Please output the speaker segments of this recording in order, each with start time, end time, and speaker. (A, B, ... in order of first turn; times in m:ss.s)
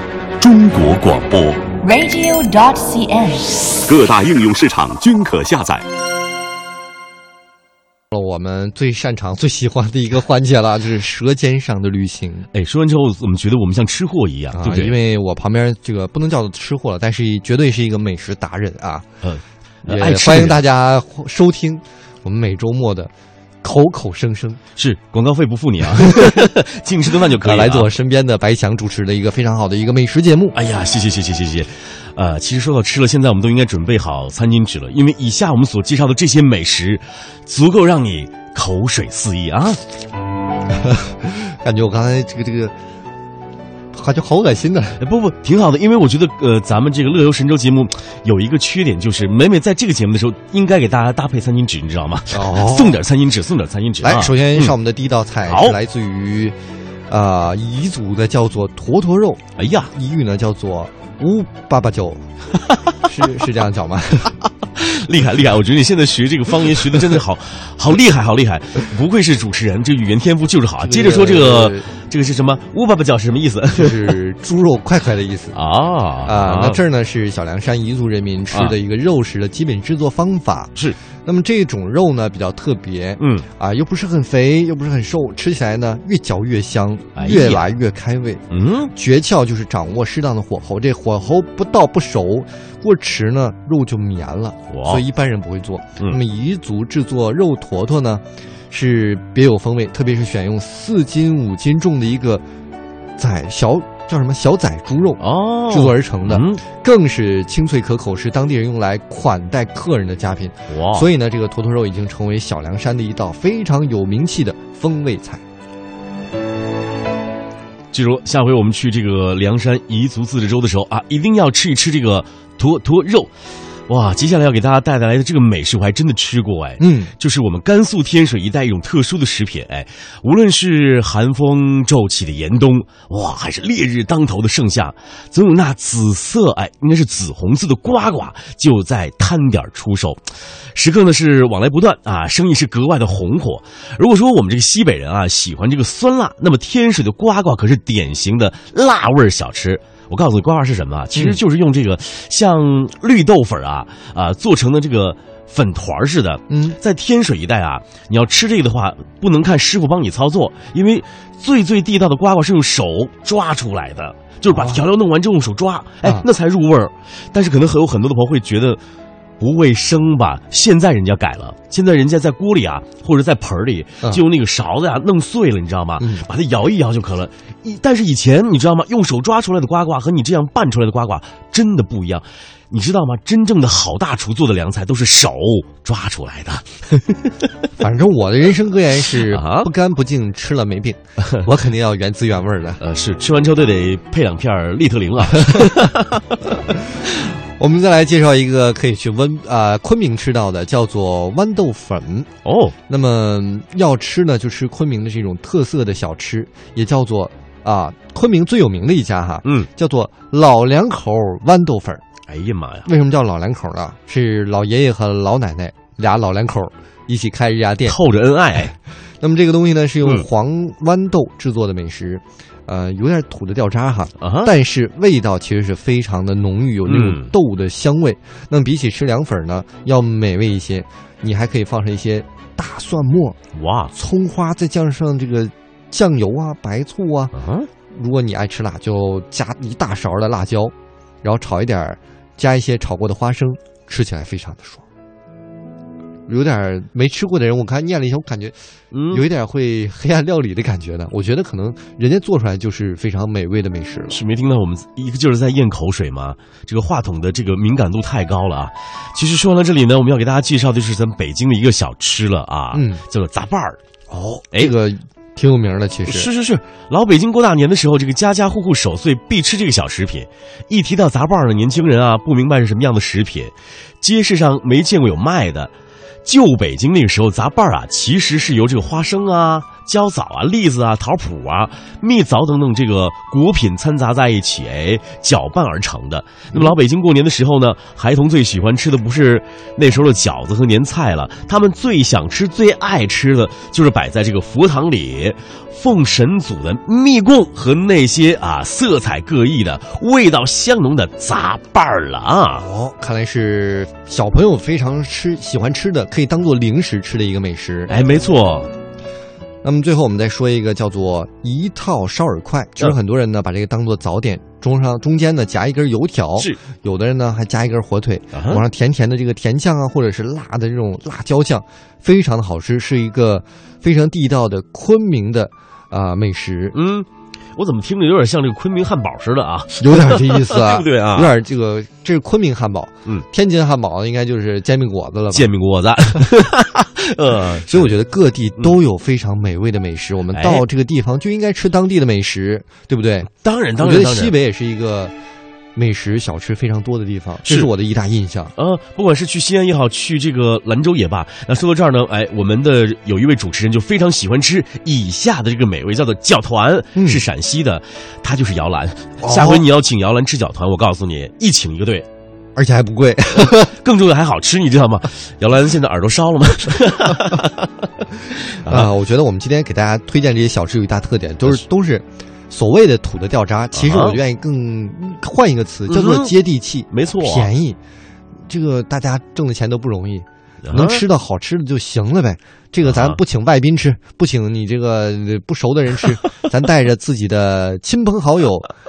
0:00.4-0:01.6 A
0:01.8-0:03.7 B
0:03.8-0:05.8 A
0:08.1-0:12.5 C
0:12.5-0:15.0 D
0:14.5-0:19.1 C
0:19.2-0:20.6 D
0:19.8-0:23.1 C
0:23.6-0:24.6 C
0:24.7-0:27.9 D
0:25.9-0:26.5 C
0:27.3-0:30.6 C
0:30.5-0:39.8 D
0:40.9-0:42.7 C
0:43.9-0:45.0 C
0:45.0-0:54.8 D
0:52.3-0:53.0 C
0:54.0-0:56.5 C
0:55.4-0:55.8 D
0:57.1-0:59.4 C
0:59.6-0:59.9 D
0:59.9-1:02.2 C
1:02.6-1:03.0 D
1:03.0-1:04.4 C
1:04.6-1:14.2 D
1:10.8-1:11.9 C
1:13.7-1:15.6 C
1:15.5-1:16.8 D
1:16.2-1:42.4 C
1:18.5-1:18.8 D
1:23.2-1:23.4 D
1:27.1-1:27.7 D
1:28.5-1:28.9 D
1:34.7-1:35.0 D
1:43.2-1:55.4 C
1:45.2-1:46.6 D
1:50.7-1:51.1 D
1:57.9-2:03.3 D
2:03.9-2:20.2 D
2:06.8-2:07.1 C
2:20.7-2:48.8 D
2:31.1-2:31.4 C
2:36.5-2:36.8 C
2:44.5-2:44.8 C
2:49.4-3:07.3 D
2:56.0-2:56.3 C
3:07.8-3:12.8 C
3:09.2-3:09.7 D
3:12.8-3:16.5 D
3:17.6-3:22.3 C
3:22.4-3:22.8 D
3:22.9-3:32.0 C
3:29.4-3:29.7 D
3:32.3-3:32.9 D
3:32.8-3:38.0 C
3:37.8-3:38.7 D
3:38.6-3:53.4 C
3:44.2-3:44.5 D
3:46.8-3:47.3 D
3:53.5-3:53.9 D
3:54.0-3:57.3 C
3:57.3-3:57.7 D
3:57.9-4:04.8 C
4:06.3-4:08.5 C
4:08.9-4:09.2 D
4:09.1-4:14.2 C
4:14.1-4:23.8 D
4:22.7-4:23.0 C
4:24.1-4:26.3 C
4:26.0-4:35.7 D
4:36.2-5:02.6 D
5:02.6-5:08.0 C
5:07.9-5:08.7 D
5:09.6-5:26.8 C
5:18.3-5:18.6 D
5:26.7-5:31.4 D
5:29.8-5:35.5 C
5:35.3-5:37.9 D
5:37.7-5:45.1 C
5:40.3-5:40.6 D
5:43.3-5:44.3 D
5:45.8-5:48.5 C
5:48.5-6:02.1 D
5:56.9-5:57.2 C
5:59.2-5:59.7 C
6:02.6-6:03.7 C
6:03.6-6:07.7 D
6:08.3-6:08.9 D
6:08.6-6:17.8 C
6:13.7-6:14.2 D
6:15.9-6:16.3 D
6:16.9-6:17.5 D
6:18.5-6:28.7 C
6:20.6-6:21.0 D
6:22.8-6:23.2 D